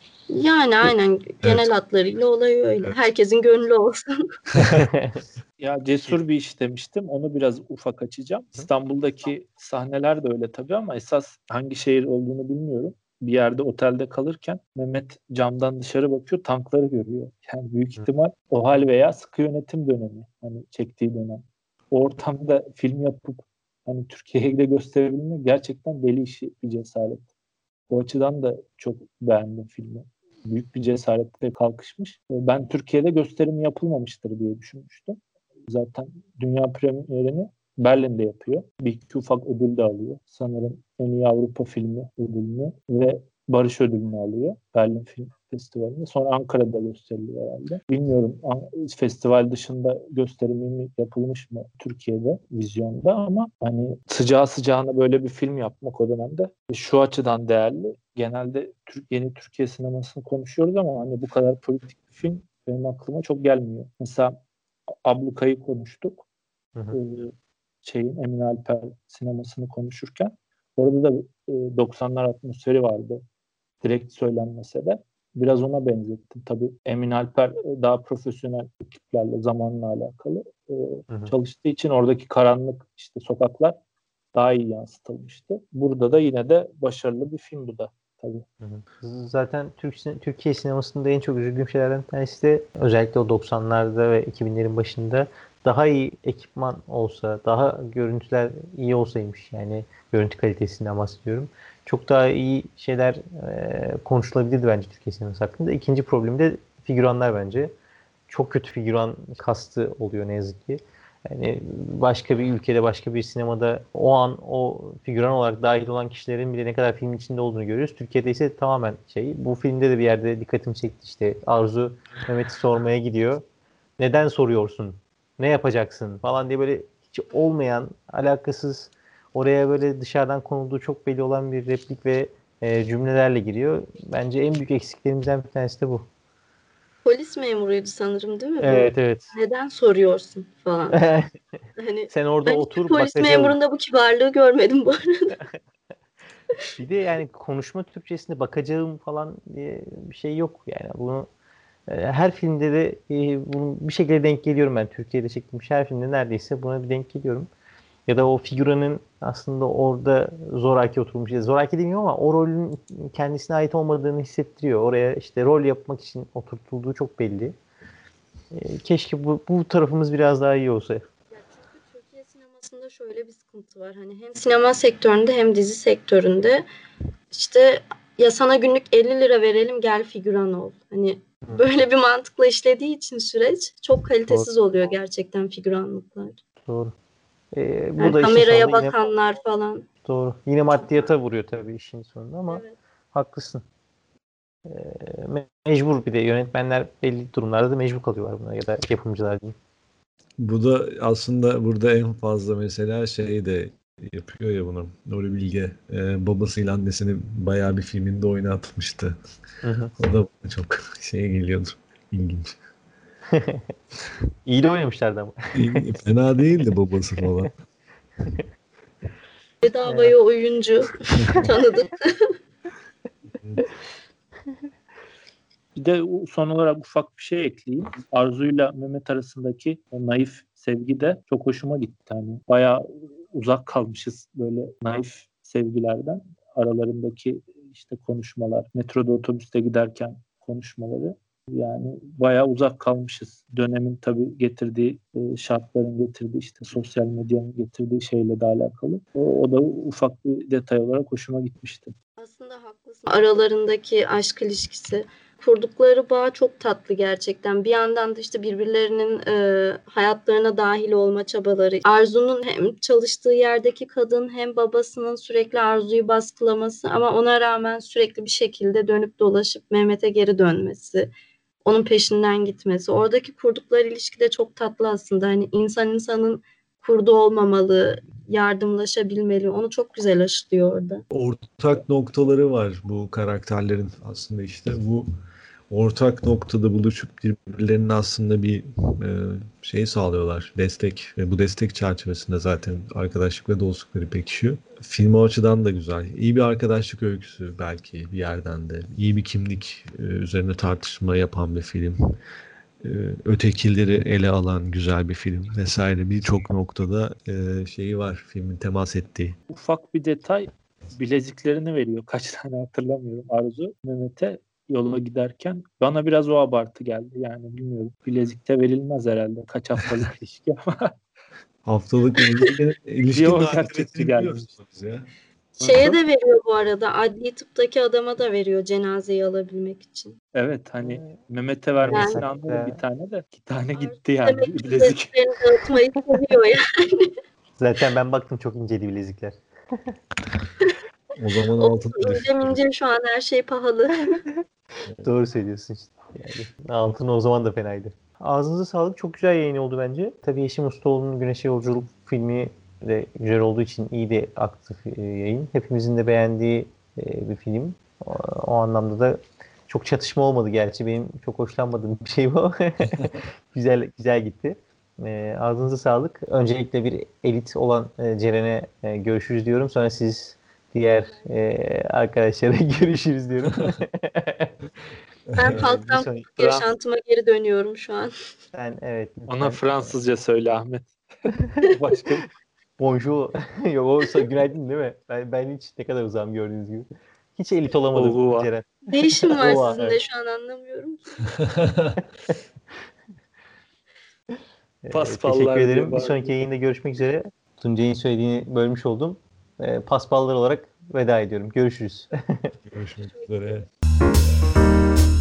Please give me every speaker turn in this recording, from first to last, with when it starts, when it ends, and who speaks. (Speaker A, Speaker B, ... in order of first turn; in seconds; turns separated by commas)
Speaker A: 0.3-4.3, Speaker B: 4.5-4.9, Speaker C: 4.8-5.2, Speaker D: 5.6-27.2, Speaker D: 27.9-64.3, Speaker D: 65.0-66.2, Speaker D: 66.9-67.3, Speaker D: 67.8-73.2, Speaker D: 73.8-83.8, Speaker D: 84.3-88.4, Speaker C: 88.6-107.7, Speaker C: 108.3-123.4, Speaker C: 124.0-136.1, Speaker A: 137.0-141.0, Speaker C: 138.6-139.3, Speaker C: 140.9-141.3, Speaker A: 141.8-145.4, Speaker C: 142.1-143.6, Speaker C: 146.8-151.3, Speaker C: 151.9-157.5, Speaker C: 158.1-167.6, Speaker C: 168.5-171.0, Speaker A: 171.3-176.7, Speaker A: 177.3-186.4, Speaker C: 186.7-186.9, Speaker C: 187.5-188.9, Speaker A: 188.0-189.9, Speaker C: 190.0-193.6, Speaker A: 192.5-192.7, Speaker C: 194.7-199.5, Speaker B: 200.4-209.2, Speaker C: 209.6-209.9, Speaker B: 210.0-212.6, Speaker C: 213.3-213.7, Speaker C: 214.4-215.8, Speaker B: 215.5-217.5, Speaker A: 219.6-222.4, Speaker C: 219.8-220.1, Speaker D: 225.7-251.9, Speaker A: 252.2-271.1, Speaker A: 271.6-281.0, Speaker B: 281.1-285.1, Speaker B: 285.7-302.0, Speaker B: 302.8-309.4, Speaker D: 309.5-320.9, Speaker B: 321.6-325.1, Speaker D: 323.1-324.4, Speaker A: 325.6-330.2, Speaker D: 325.6-325.9, Speaker D: 330.3-335.1, Speaker C: 330.8-331.1, Speaker C: 331.7-332.8, Speaker A: 331.9-332.2, Speaker A: 333.7-337.1, Speaker C: 337.6-339.9, Speaker B: 341.1-342.6, Speaker A: 341.6-344.2, Speaker C: 345.0-374.6, Speaker B: 375.3-375.6, Speaker A: 375.4-378.1, Speaker C: 375.4-376.6, Speaker C: 378.5-379.9, Speaker D: 379.3-380.9, Speaker C: 381.3-381.7, Speaker D: 381.6-382.3, Speaker C: 382.8-390.0, Speaker D: 387.9-388.5, Speaker A: 388.9-391.3, Speaker B: 391.4-392.0, Speaker C: 394.8-402.5, Speaker D: 394.9-396.4, Speaker B: 402.7-403.7